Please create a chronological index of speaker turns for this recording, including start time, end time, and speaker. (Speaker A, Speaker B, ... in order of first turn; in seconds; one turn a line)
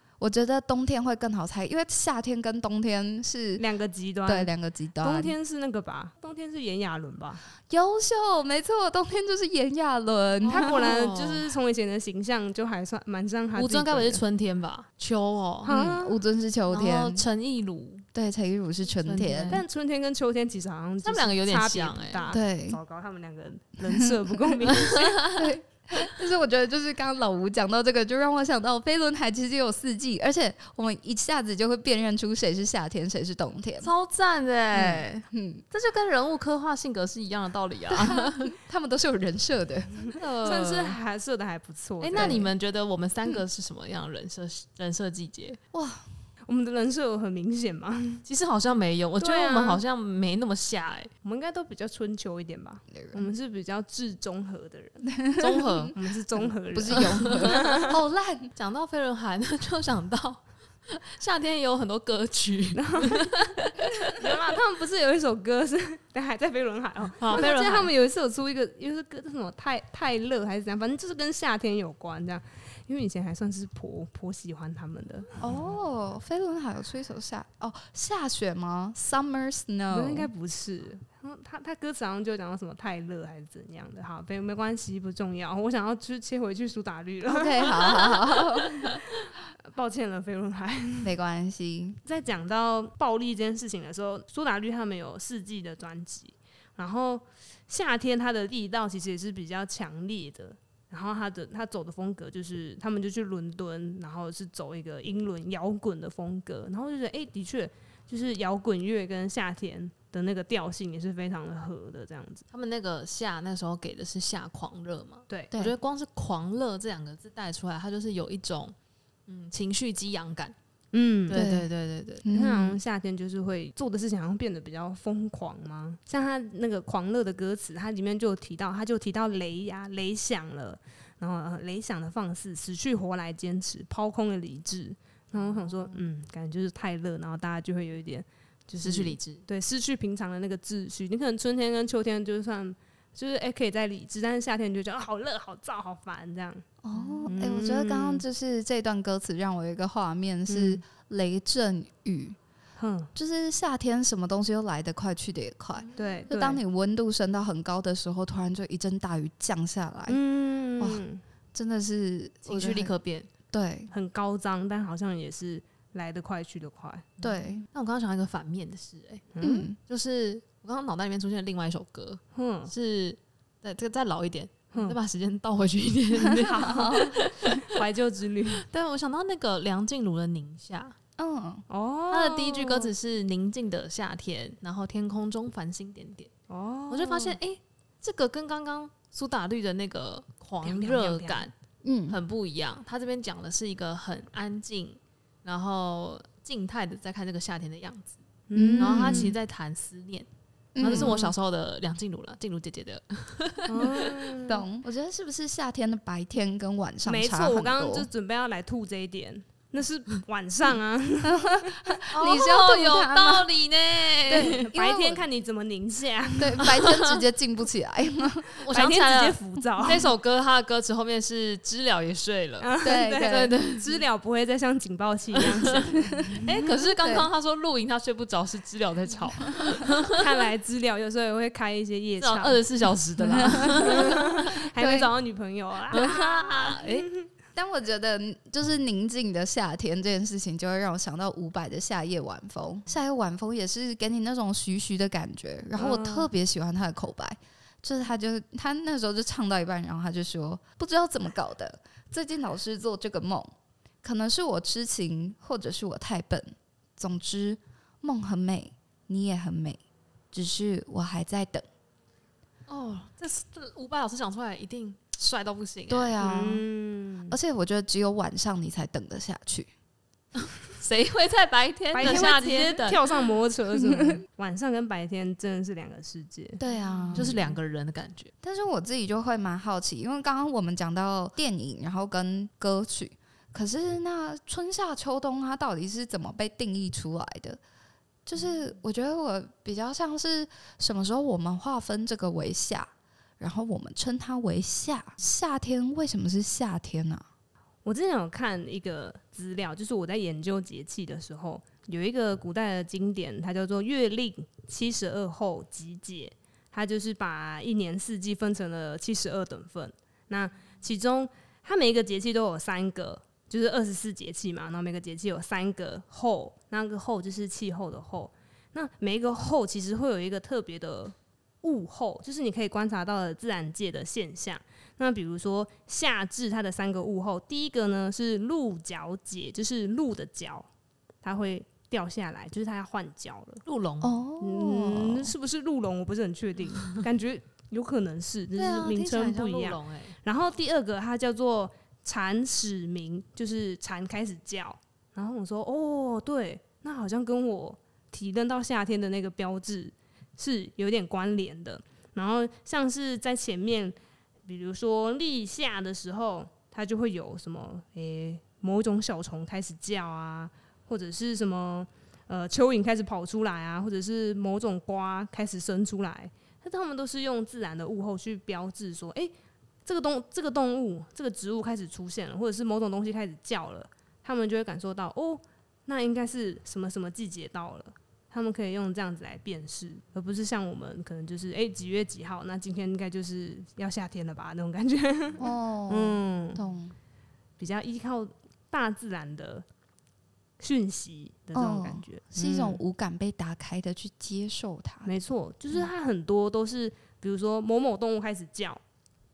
Speaker A: 0.2-3.6
Speaker B: 3.6-7.4
Speaker A: 4.3-5.3
Speaker A: 7.7-10.7
Speaker C: 10.4-11.5
Speaker B: 10.5-14.2
Speaker C: 13.6-15.7
Speaker B: 15.6-16.2
Speaker A: 15.7-17.2
Speaker C: 16.7-18.1
Speaker A: 18.1-19.6
Speaker C: 19.0-19.6
Speaker B: 19.5-25.3
Speaker C: 21.0-22.3
Speaker A: 22.3-22.8
Speaker C: 24.7-25.5
Speaker A: 25.3-33.9
Speaker C: 33.8-38.5
Speaker A: 34.7-35.6
Speaker A: 37.9-40.2
Speaker C: 40.1-41.0
Speaker B: 40.4-42.5
Speaker C: 42.0-45.6
Speaker A: 42.1-42.5
Speaker A: 45.7-46.0
Speaker B: 46.5-48.3
Speaker C: 48.3-51.1
Speaker B: 49.2-49.8
Speaker B: 51.2-55.1
Speaker A: 52.9-53.3
Speaker A: 55.1-55.9
Speaker C: 55.4-55.9
Speaker B: 56.0-58.0
Speaker A: 56.7-58.5
Speaker C: 57.2-57.7
Speaker C: 58.5-63.9
Speaker B: 62.7-63.5
Speaker B: 64.0-75.5
Speaker C: 67.2-67.9
Speaker A: 75.4-80.3
Speaker B: 79.9-91.1
Speaker A: 87.3-89.0
Speaker A: 91.0-92.0
Speaker B: 92.0-112.4
Speaker C: 112.5-118.8
Speaker C: 119.3-120.5
Speaker B: 120.9-121.4
Speaker C: 121.3-122.2
Speaker A: 121.3-121.7
Speaker A: 122.2-122.8
Speaker B: 122.3-146.7
Speaker C: 135.3-136.0
Speaker C: 138.8-139.4
Speaker A: 146.8-152.4
Speaker C: 146.9-147.3
Speaker B: 147.3-148.2
Speaker B: 150.5-150.8
Speaker B: 152.8-153.1
Speaker A: 153.2-160.2
Speaker C: 155.8-156.3
Speaker B: 156.0-156.6
Speaker B: 160.1-161.2
Speaker A: 160.8-161.0
Speaker A: 161.5-162.9
Speaker C: 162.5-163.3
Speaker A: 163.5-163.9
Speaker B: 163.9-167.2
Speaker C: 167.2-177.4
Speaker A: 167.2-167.6
Speaker B: 169.3-169.7
Speaker A: 169.4-169.8
Speaker B: 172.3-172.7
Speaker B: 174.7-175.0
Speaker A: 176.3-177.2
Speaker B: 176.8-178.7
Speaker C: 178.7-180.9
Speaker A: 181.2-181.6
Speaker B: 181.7-182.9
Speaker C: 182.1-186.3
Speaker B: 186.5-187.4
Speaker C: 186.9-191.5
Speaker B: 190.6-191.5
Speaker A: 191.8-192.2
Speaker C: 192.1-198.2
Speaker B: 198.5-199.4
Speaker A: 198.6-199.3
Speaker C: 198.8-200.3
Speaker A: 200.8-201.3
Speaker C: 200.8-204.3
Speaker B: 200.8-201.2
Speaker B: 203.7-204.7
Speaker A: 204.5-208.1
Speaker B: 207.1-211.8
Speaker A: 211.2-213.5
Speaker C: 212.1-214.7
Speaker A: 214.3-215.2
Speaker B: 214.4-216.8
Speaker A: 216.4-218.6
Speaker C: 218.6-223.9
Speaker B: 218.7-220.1
Speaker B: 222.6-226.4
Speaker A: 222.8-223.5
Speaker C: 225.3-225.8
Speaker C: 226.4-230.3
Speaker A: 227.0-227.3
Speaker B: 230.1-232.6
Speaker C: 232.2-234.5
Speaker A: 233.3-234.1
Speaker B: 233.5-237.3
Speaker A: 234.8-235.1
Speaker C: 235.9-237.1
Speaker A: 237.6-259.8
Speaker B: 245.8-246.3
Speaker A: 260.3-261.7
Speaker C: 262.7-266.2
Speaker A: 265.9-266.7
Speaker B: 266.2-267.4
Speaker A: 267.3-269.7
Speaker C: 270.7-273.0
Speaker B: 271.9-276.6
Speaker A: 276.6-277.4
Speaker C: 276.7-278.3
Speaker B: 277.1-277.6
Speaker A: 278.4-287.6
Speaker A: 288.3-297.3
Speaker B: 297.9-330.7
Speaker B: 331.2-333.6
Speaker C: 333.6-334.2
Speaker A: 334.0-335.3
Speaker B: 334.4-353.9
Speaker C: 338.5-340.2
Speaker B: 354.5-369.3
Speaker B: 369.9-386.6
Speaker A: 385.4-386.9
Speaker B: 387.6-389.6
Speaker B: 390.6-392.8
Speaker A: 391.5-395.1
Speaker B: 395.1-398.8